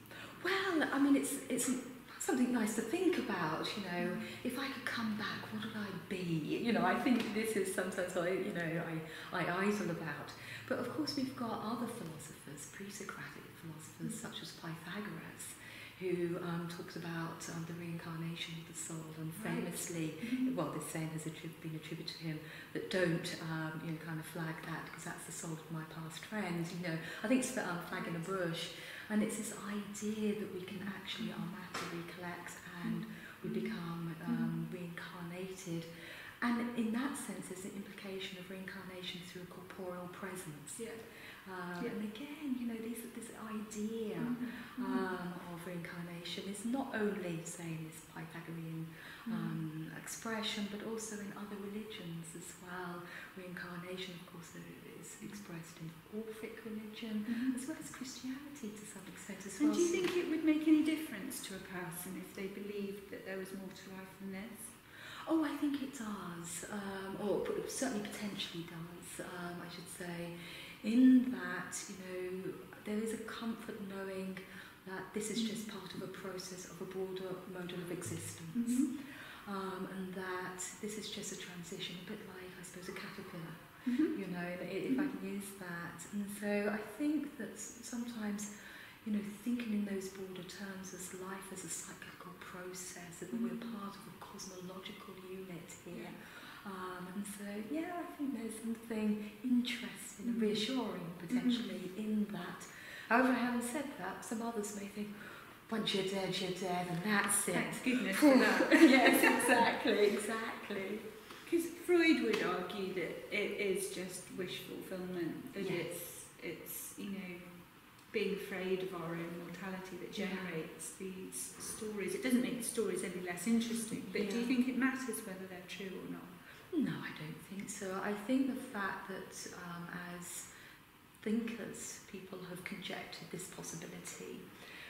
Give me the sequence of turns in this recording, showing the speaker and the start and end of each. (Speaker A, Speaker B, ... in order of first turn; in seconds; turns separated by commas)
Speaker A: 0.3-35.9, Speaker B: 4.0-4.3, Speaker B: 19.3-20.5, Speaker B: 27.9-28.3, Speaker B: 30.7-31.5, Speaker B: 32.8-34.5, Speaker A: 36.4-40.9, Speaker B: 40.8-41.0, Speaker A: 41.4-60.1, Speaker B: 44.2-45.1, Speaker B: 49.2-49.6, Speaker B: 57.3-57.6, Speaker B: 59.6-64.7, Speaker A: 65.2-88.5, Speaker B: 75.3-75.7, Speaker B: 78.5-78.9, Speaker B: 83.8-84.2, Speaker A: 89.0-111.0, Speaker B: 93.3-93.8, Speaker B: 95.9-96.2, Speaker B: 100.2-100.7, Speaker B: 101.3-101.8, Speaker B: 107.5-109.7, Speaker B: 111.4-117.5, Speaker A: 115.6-115.9, Speaker B: 118.1-126.3, Speaker A: 120.2-120.6, Speaker A: 124.1-124.5, Speaker A: 126.7-130.5, Speaker A: 131.2-134.4